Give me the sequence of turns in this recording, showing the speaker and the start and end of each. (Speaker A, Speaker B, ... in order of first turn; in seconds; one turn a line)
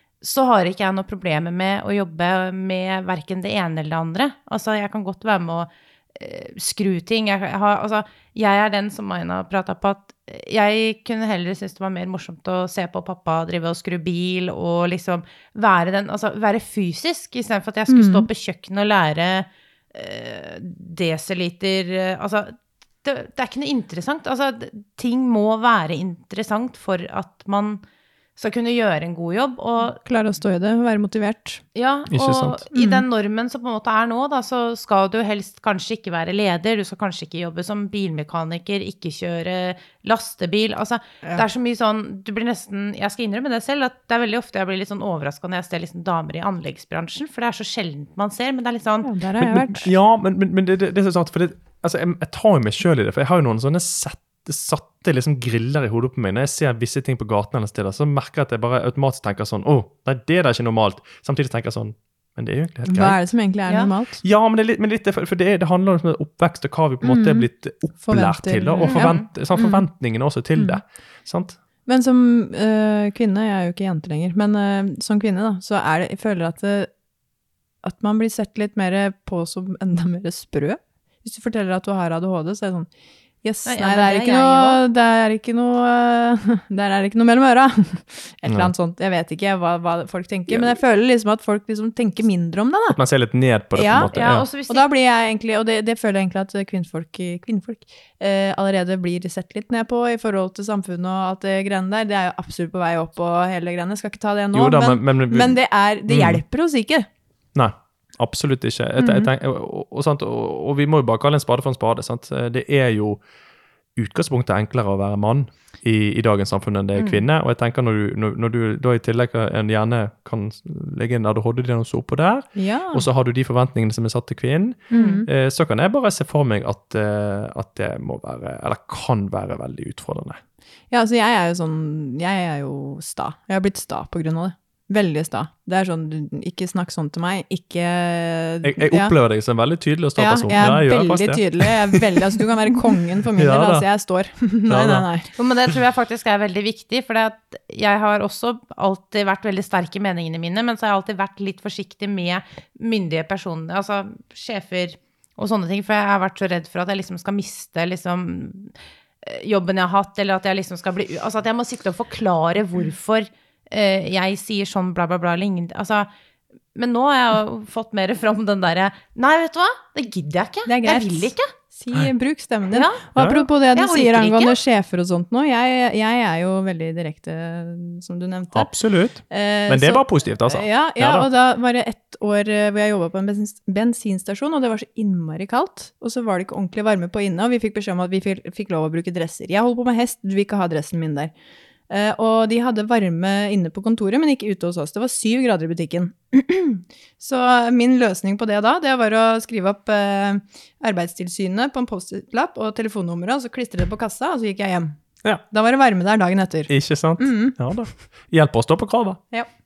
Speaker A: 0.2-27.8
Speaker B: 17.9-18.3
Speaker A: 28.4-30.0
Speaker B: 29.8-31.6
Speaker A: 31.7-49.1
Speaker C: 32.1-32.6
Speaker B: 32.7-33.0
Speaker B: 49.0-49.9
Speaker C: 49.4-63.2
Speaker B: 62.9-64.2
Speaker A: 63.7-63.9
Speaker C: 64.2-71.6
Speaker B: 67.0-69.8
Speaker A: 68.8-69.3
Speaker B: 70.5-70.8
Speaker B: 71.8-76.9
Speaker B: 77.8-82.9
Speaker B: 83.4-93.0
Speaker A: 83.7-84.8
Speaker C: 88.5-88.7
Speaker C: 92.9-94.5
Speaker B: 93.7-107.1
Speaker A: 94.1-94.8
Speaker C: 104.5-106.4
Speaker C: 107.5-113.2
Speaker B: 109.0-109.3
Speaker C: 114.0-130.4
Speaker A: 117.0-117.2
Speaker B: 122.5-123.1
Speaker B: 124.9-125.3
Speaker A: 124.9-125.2
Speaker B: 130.9-139.1
Speaker C: 138.6-142.1
Speaker B: 140.2-145.3
Speaker C: 143.3-143.9
Speaker C: 144.6-145.1
Speaker A: 145.4-166.1
Speaker A: 166.7-171.5
Speaker B: 170.7-191.3
Speaker A: 172.7-173.0
Speaker C: 173.2-173.4
Speaker A: 173.6-174.6
Speaker C: 178.5-181.2
Speaker B: 191.9-205.0
Speaker B: 205.5-207.7
Speaker C: 206.7-209.2